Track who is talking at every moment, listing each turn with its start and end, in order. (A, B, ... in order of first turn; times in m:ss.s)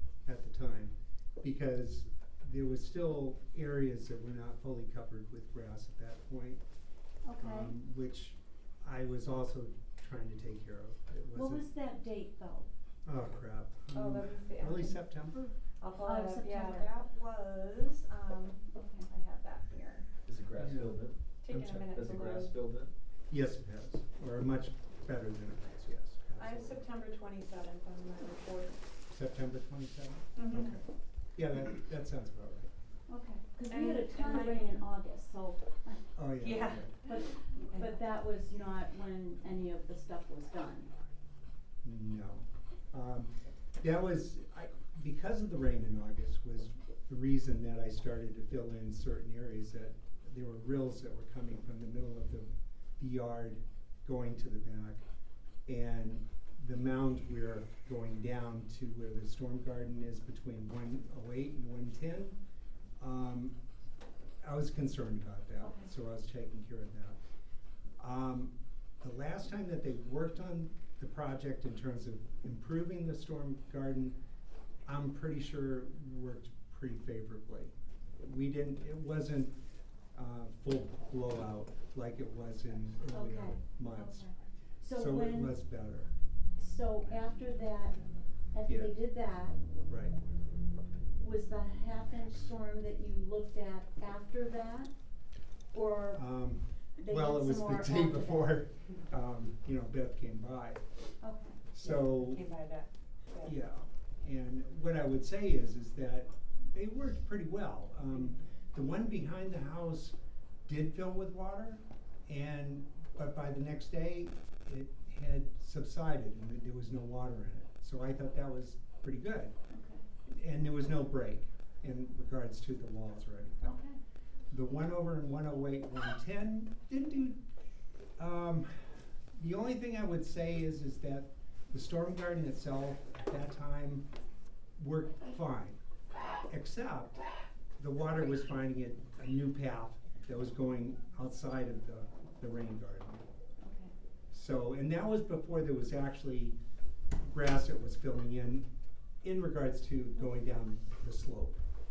0:00.2-0:06.6 A
0:07.2-0:07.7 B
0:07.4-0:11.7 A
0:11.3-0:12.7 B
0:13.0-0:15.6 A
0:13.9-0:15.0 C
0:15.8-0:20.1 C
0:16.0-0:16.9 B
0:18.7-0:19.1 B
0:20.2-0:22.9 D
0:20.6-0:21.8 A
0:21.4-0:22.5 C
0:23.3-0:26.8 A
0:26.4-0:28.9 C
0:29.1-0:30.8 A
0:30.3-0:30.8 C
0:30.4-0:30.8 B
0:31.4-0:32.7 A
0:33.1-0:36.2 B
0:33.7-0:34.8 C
0:36.2-0:36.9 A
0:36.4-0:38.0 C
0:37.0-0:40.9 B
0:41.8-0:55.0 A
0:55.6-1:02.4 A
1:03.0-1:03.6 A
1:04.4-1:07.2 A
1:05.6-1:05.9 B
1:08.0-1:14.2 A
1:14.8-1:19.5 A
1:20.1-1:24.3 A
1:23.1-1:25.6 B
1:24.9-1:26.1 A
1:26.6-1:28.0 B
1:28.5-1:29.6 B
1:28.7-1:28.9 A
1:29.9-1:30.1 A
1:31.2-1:34.9 B
1:35.7-1:36.2 B
1:36.1-1:40.8 A
1:37.0-1:38.6 B
1:41.2-1:41.6 B
1:41.7-1:42.4 A
1:41.8-1:43.6 C
1:43.4-1:59.5 A
1:59.7-2:00.0 B
2:00.3-2:03.8 A
2:03.6-2:04.0 B
2:04.5-2:07.4 A
2:08.2-2:14.1 A
2:14.8-2:15.8 A
2:16.5-2:17.2 A
2:17.8-2:23.2 A
2:23.6-2:23.9 B
2:24.3-2:26.6 A
2:27.2-2:28.7 A
2:29.2-2:31.6 A